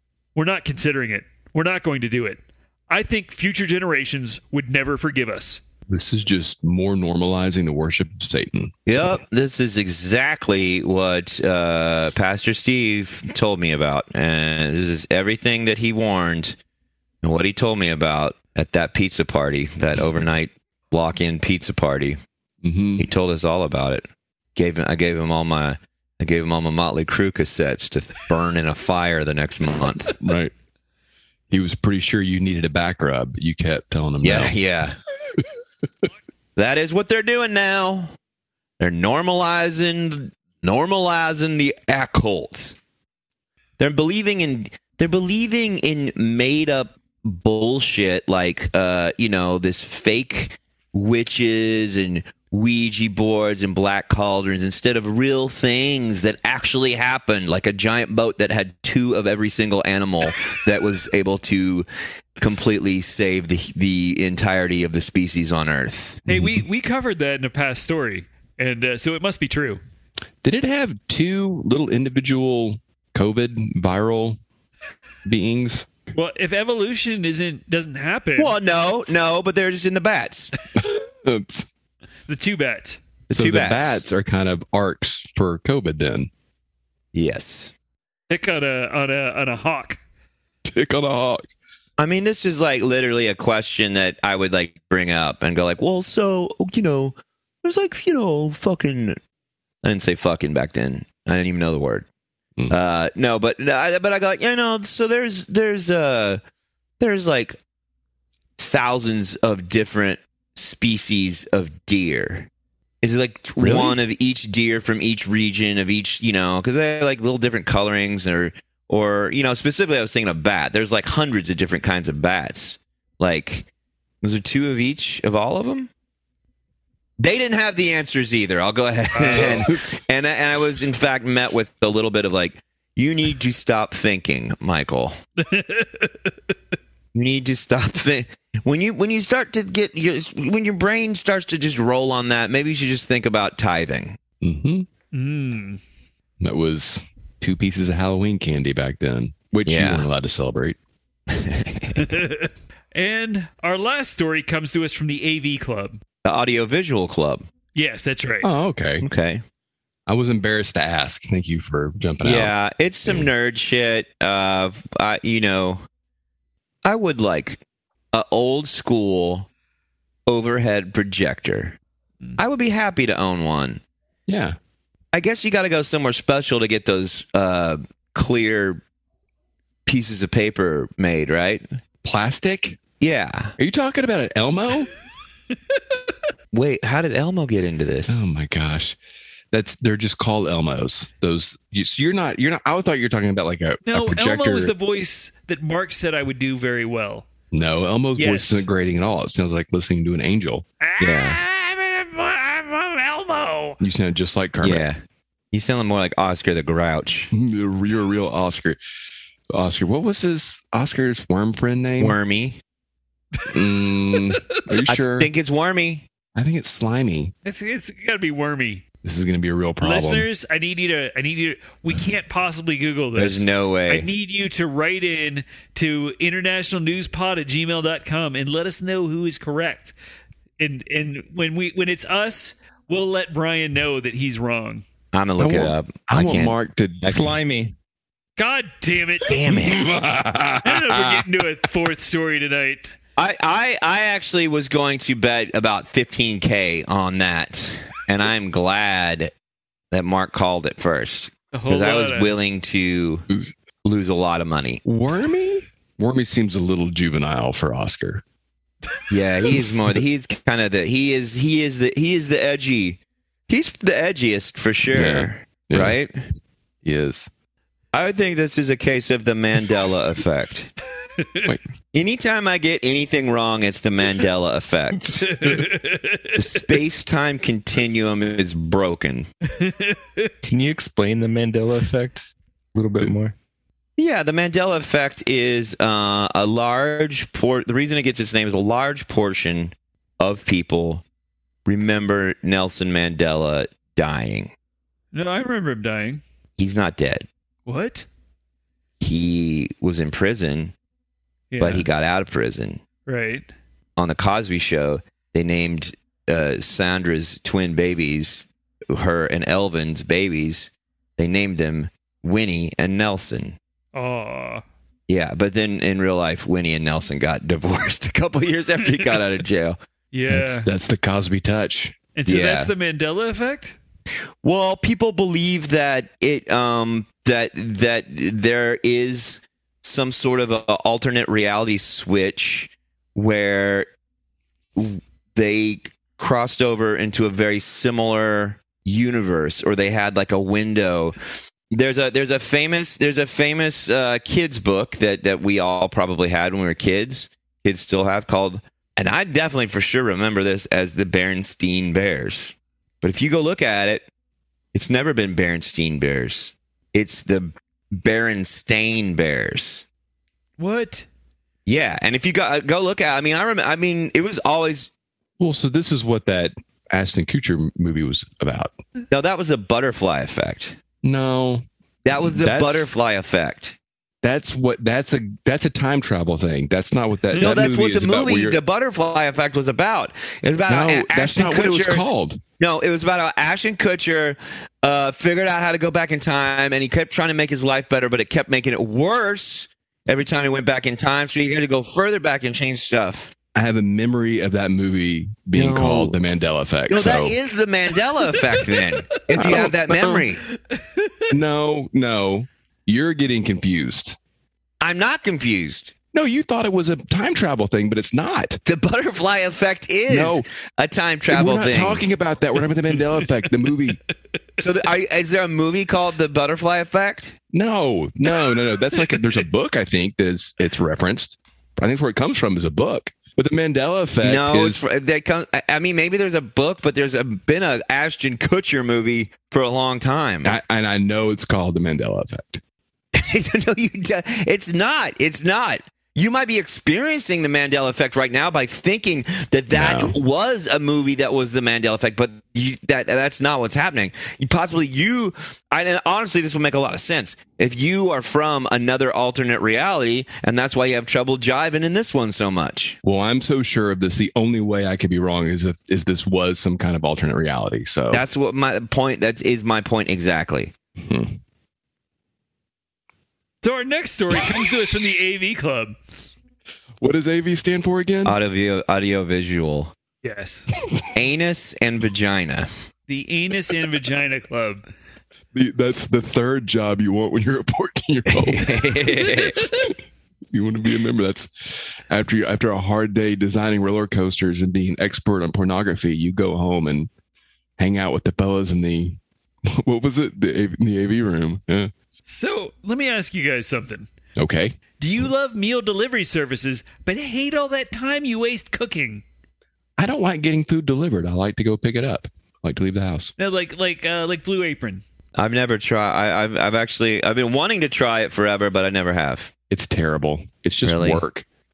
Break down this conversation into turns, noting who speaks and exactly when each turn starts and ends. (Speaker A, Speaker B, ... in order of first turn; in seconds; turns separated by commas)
Speaker A: 0.3-5.6, Speaker B: 5.9-9.1, Speaker C: 8.9-16.6, Speaker C: 17.2-22.2, Speaker B: 22.6-23.1, Speaker C: 23.0-24.0, Speaker C: 24.6-30.2, Speaker B: 30.2-30.5, Speaker B: 31.5-34.5, Speaker C: 34.2-35.0, Speaker C: 36.5-38.1, Speaker C: 38.8-42.7, Speaker C: 43.8-61.9, Speaker C: 62.4-66.2, Speaker B: 66.3-66.6, Speaker A: 66.3-69.8, Speaker B: 70.4-74.4, Speaker B: 75.2-75.9, Speaker A: 76.1-78.5, Speaker C: 78.4-80.5, Speaker B: 80.8-81.7, Speaker A: 82.3-83.0, Speaker C: 83.3-84.0, Speaker B: 83.3-86.3, Speaker C: 87.1-87.7, Speaker A: 88.3-90.0, Speaker B: 90.6-91.5, Speaker C: 92.0-99.2, Speaker C: 99.8-102.0, Speaker C: 102.7-106.4, Speaker C: 107.0-107.6, Speaker C: 108.6-112.5, Speaker C: 113.0-123.7, Speaker B: 113.6-114.0, Speaker C: 124.2-125.9, Speaker C: 127.2-135.2, Speaker A: 129.1-129.6, Speaker B: 129.2-130.0, Speaker A: 135.4-136.3, Speaker C: 137.1-144.2, Speaker B: 144.4-144.9, Speaker A: 145.1-145.8, Speaker B: 146.4-150.8, Speaker C: 149.7-150.1, Speaker C: 151.3-152.0, Speaker A: 152.0-156.0, Speaker C: 156.2-157.4, Speaker A: 157.7-158.5, Speaker B: 158.4-159.0, Speaker C: 159.0-159.4, Speaker B: 160.1-162.5, Speaker C: 162.2-165.8, Speaker B: 163.0-163.3, Speaker C: 166.8-167.6, Speaker C: 168.1-169.5, Speaker C: 170.3-171.8, Speaker C: 172.4-173.8, Speaker B: 174.3-174.6, Speaker C: 175.1-178.8, Speaker C: 179.8-181.6, Speaker B: 182.0-182.8, Speaker C: 183.0-183.5, Speaker B: 183.6-184.9, Speaker C: 186.5-188.2, Speaker B: 188.1-188.9, Speaker B: 189.5-194.7, Speaker A: 193.8-197.3, Speaker B: 197.5-200.6, Speaker A: 198.2-198.7, Speaker A: 200.8-203.8, Speaker C: 201.0-201.4, Speaker B: 203.8-204.8, Speaker C: 204.6-205.0, Speaker C: 205.5-207.3, Speaker B: 207.3-208.8, Speaker B: 209.5-212.2, Speaker C: 212.0-212.6, Speaker B: 213.5-215.3, Speaker A: 214.1-214.4, Speaker C: 214.8-216.1, Speaker B: 216.3-217.3, Speaker A: 217.4-218.8, Speaker B: 219.0-220.3, Speaker A: 219.8-229.9, Speaker C: 223.1-224.1, Speaker A: 230.6-234.8, Speaker C: 235.1-236.6, Speaker B: 235.4-237.3, Speaker D: 237.0-237.7, Speaker A: 238.4-239.4, Speaker C: 239.3-240.0, Speaker B: 239.5-241.3, Speaker A: 240.6-242.9, Speaker C: 243.2-249.3, Speaker C: 249.9-253.2, Speaker A: 251.5-252.3, Speaker C: 253.8-254.8, Speaker B: 254.8-258.2, Speaker C: 259.1-266.1, Speaker B: 259.5-260.0, Speaker B: 264.9-266.0, Speaker B: 266.8-267.3, Speaker C: 267.9-270.7, Speaker A: 271.2-271.5, Speaker C: 271.9-275.6, Speaker A: 275.1-276.6, Speaker C: 276.3-279.3, Speaker A: 279.6-280.3, Speaker D: 280.4-283.3, Speaker C: 284.0-291.0, Speaker C: 291.6-294.5, Speaker A: 295.1-296.2, Speaker C: 296.6-297.3, Speaker A: 297.6-298.1, Speaker C: 299.0-300.7, Speaker A: 301.5-301.9, Speaker C: 301.6-302.8, Speaker A: 303.1-303.4, Speaker C: 304.0-313.6, Speaker A: 313.9-314.6, Speaker C: 315.1-319.8, Speaker A: 320.1-320.7, Speaker B: 320.3-321.9, Speaker A: 322.1-323.8, Speaker C: 322.3-322.7, Speaker C: 324.4-333.9, Speaker C: 334.8-341.2, Speaker C: 341.7-354.1, Speaker C: 354.7-359.8, Speaker A: 360.6-361.1, Speaker C: 361.6-364.9, Speaker B: 365.4-368.8, Speaker C: 369.1-370.8, Speaker B: 371.0-371.6, Speaker C: 372.0-373.8, Speaker B: 372.2-372.9, Speaker B: 374.2-378.6, Speaker C: 377.4-382.0, Speaker B: 380.7-382.4, Speaker C: 382.6-393.3, Speaker B: 393.5-397.4, Speaker C: 395.5-396.1, Speaker C: 396.9-400.4, Speaker B: 399.3-400.2, Speaker A: 400.7-401.2, Speaker B: 401.3-404.2, Speaker C: 404.8-405.9, Speaker B: 406.1-408.6, Speaker C: 408.6-412.0, Speaker B: 410.1-410.4, Speaker B: 411.3-414.0, Speaker C: 414.6-417.4, Speaker B: 417.5-424.8, Speaker C: 424.2-430.5, Speaker B: 430.4-432.6, Speaker C: 433.1-453.0, Speaker B: 439.7-440.1, Speaker B: 453.0-458.2, Speaker C: 458.1-460.7, Speaker B: 461.0-461.4, Speaker A: 463.6-466.0, Speaker B: 467.0-468.4, Speaker C: 468.2-469.9, Speaker A: 470.2-470.7, Speaker C: 471.1-472.7, Speaker A: 473.1-474.9, Speaker B: 475.5-478.9, Speaker C: 478.3-479.6, Speaker B: 479.7-479.9, Speaker B: 480.5-481.5, Speaker B: 482.1-487.1, Speaker B: 487.8-491.9, Speaker A: 492.3-494.1, Speaker B: 494.4-494.8, Speaker A: 495.0-499.2, Speaker B: 500.0-503.3, Speaker A: 503.4-505.0, Speaker C: 505.3-509.5, Speaker B: 509.7-511.4, Speaker C: 510.8-511.2